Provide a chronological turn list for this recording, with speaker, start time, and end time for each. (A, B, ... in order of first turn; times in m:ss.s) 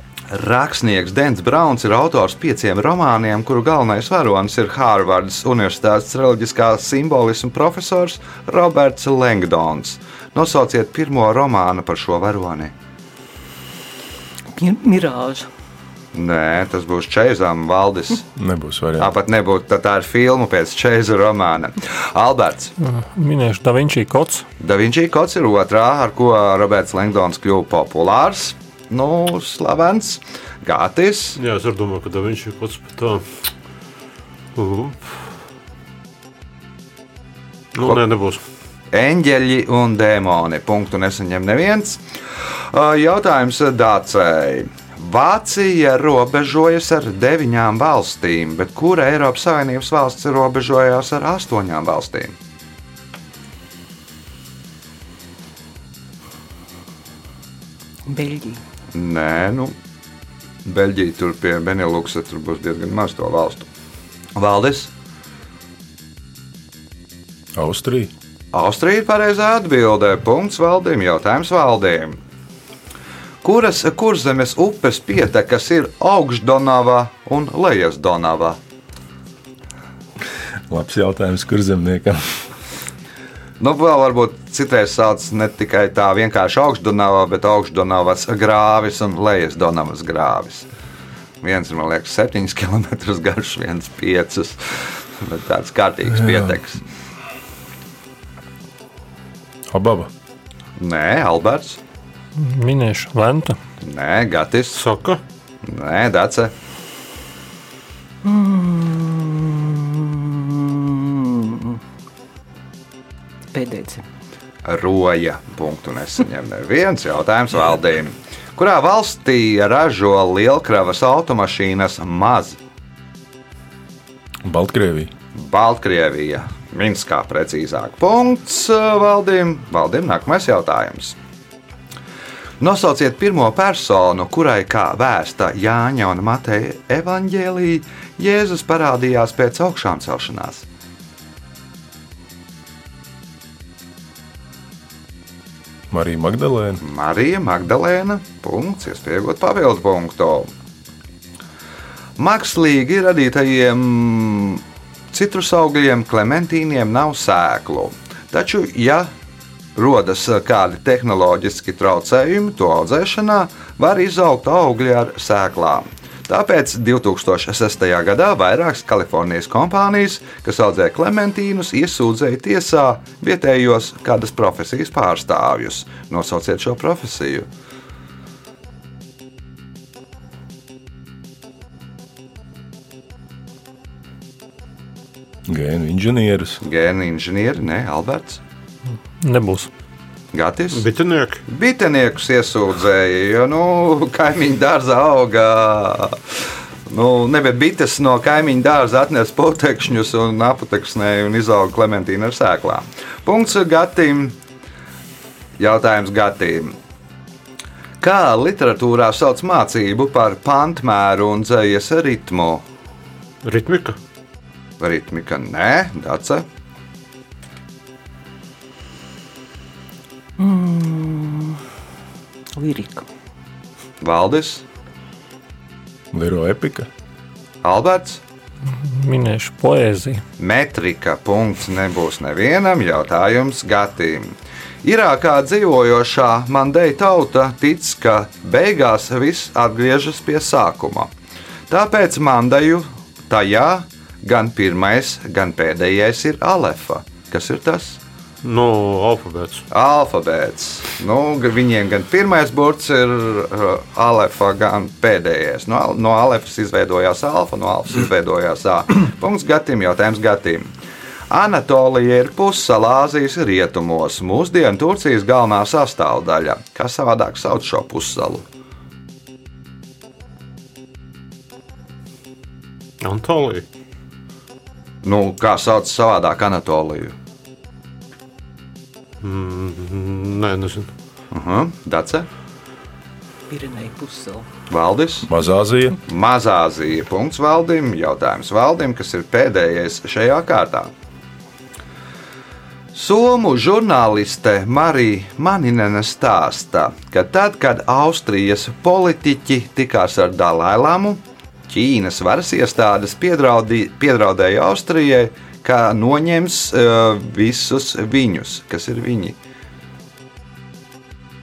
0:00.3-0:12.7 A
0:14.6-0:15.5 B
0:16.1-0:18.3 A
0:18.4-0:19.2 C
0:19.0-0:22.7 A
0:22.8-0:24.5 D
0:24.6-0:31.4 A
0:31.4-0:33.4 E
0:34.6-0:35.2 E
0:37.8-0:38.4 E
0:38.9-0:42.0 A
0:42.7-0:52.4 A
0:58.1-0:58.6 B
0:58.9-0:59.8 A
1:00.6-1:03.7 A
1:04.4-1:04.9 A
1:07.6-1:08.1 C
1:08.5-1:12.2 A
1:13.4-1:18.6 A
1:20.7-1:22.4 C
1:23.6-1:30.7 A
1:31.4-1:36.8 A
1:39.7-1:40.1 C
1:40.8-1:41.8 A
1:42.4-1:43.6 D
1:43.8-1:44.8 A
1:44.8-1:45.2 E
1:45.6-1:46.5 A
1:48.2-1:51.8 B
1:53.5-1:54.1 B
1:54.6-2:02.6 A
2:04.4-2:05.1 C
2:05.4-2:11.2 A
2:12.6-2:20.6 A
2:25.9-2:26.8 C
2:26.8-2:30.5 A
2:32.2-2:39.1 A
2:39.8-2:57.5 A
3:05.5-3:06.6 C
3:06.6-3:08.4 A
3:09.2-3:09.7 D
3:10.3-3:10.9 A
3:10.7-3:11.4 E
3:11.5-3:16.2 A
3:16.9-3:24.4 A
3:25.6-3:26.7 A
3:28.0-3:32.6 A
3:33.4-3:34.0 E
3:34.8-3:36.4 A
3:40.4-3:41.6 B
3:42.6-3:43.1 B
3:44.0-3:44.6 A
3:46.1-3:46.9 C
3:47.6-3:48.2 A
3:48.7-3:50.2 D
3:50.4-4:01.1 A
4:01.7-4:08.0 A
4:08.4-4:09.6 E
4:09.7-4:20.7 A
4:21.3-4:28.4 A
4:33.0-4:33.6 E
4:35.0-4:37.2 A
4:39.2-4:40.9 E
4:41.3-4:42.3 A
4:43.5-4:44.5 B
4:44.7-4:45.3 A
4:45.2-4:46.0 C
4:46.1-4:50.9 A
4:52.9-5:09.4 A